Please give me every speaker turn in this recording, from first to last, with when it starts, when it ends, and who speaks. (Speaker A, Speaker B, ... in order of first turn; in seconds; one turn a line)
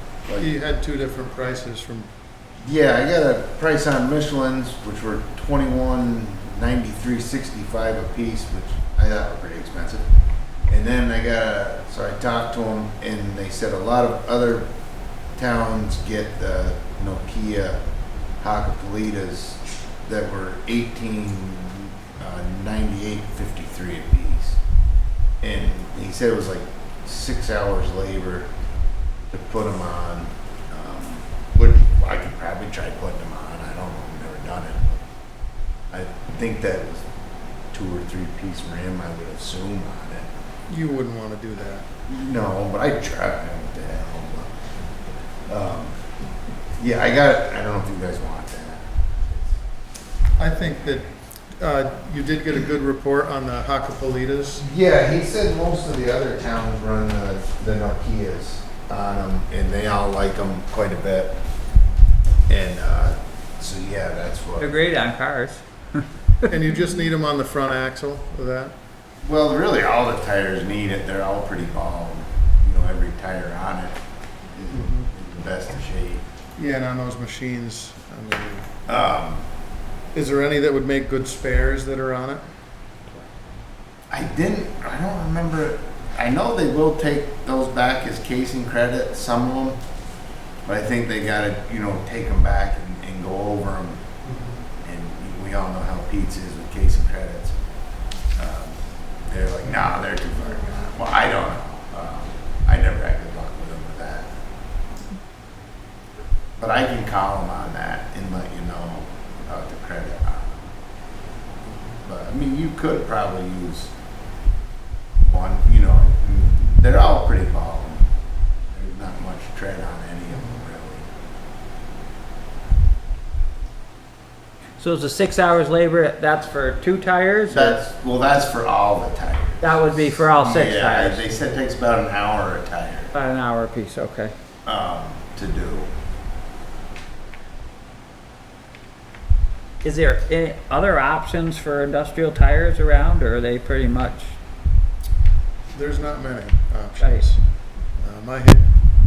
Speaker A: 0.2-0.5
Speaker B: 0.4-2.1
Speaker A: 2.6-10.0
Speaker A: 10.7-14.7
Speaker A: 15.3-17.8
Speaker A: 18.4-24.6
Speaker A: 25.4-28.5
Speaker A: 29.3-35.1
Speaker A: 35.9-37.1
Speaker A: 37.7-40.3
Speaker B: 40.7-41.9
Speaker A: 42.0-44.5
Speaker A: 45.5-46.0
Speaker A: 46.8-49.5
Speaker B: 50.4-51.0
Speaker B: 51.6-54.6
Speaker A: 54.6-61.4
Speaker A: 62.5-64.7
Speaker C: 64.6-66.0
Speaker B: 66.5-68.7
Speaker A: 69.2-74.0
Speaker A: 74.5-76.2
Speaker B: 74.7-75.0
Speaker B: 76.6-78.7
Speaker A: 78.9-79.5
Speaker B: 80.1-82.4
Speaker A: 84.1-89.8
Speaker A: 90.6-94.0
Speaker B: 94.2-94.6
Speaker A: 94.8-97.5
Speaker A: 98.3-104.3
Speaker A: 106.6-110.7
Speaker A: 112.0-113.9
Speaker A: 115.2-118.0
Speaker A: 118.7-121.0
Speaker C: 124.8-127.8
Speaker A: 127.5-133.1
Speaker C: 129.6-131.3
Speaker C: 133.1-134.3
Speaker A: 134.6-135.9
Speaker C: 139.8-144.4
Speaker B: 145.7-147.4
Speaker C: 147.0-147.2
Speaker B: 147.9-148.7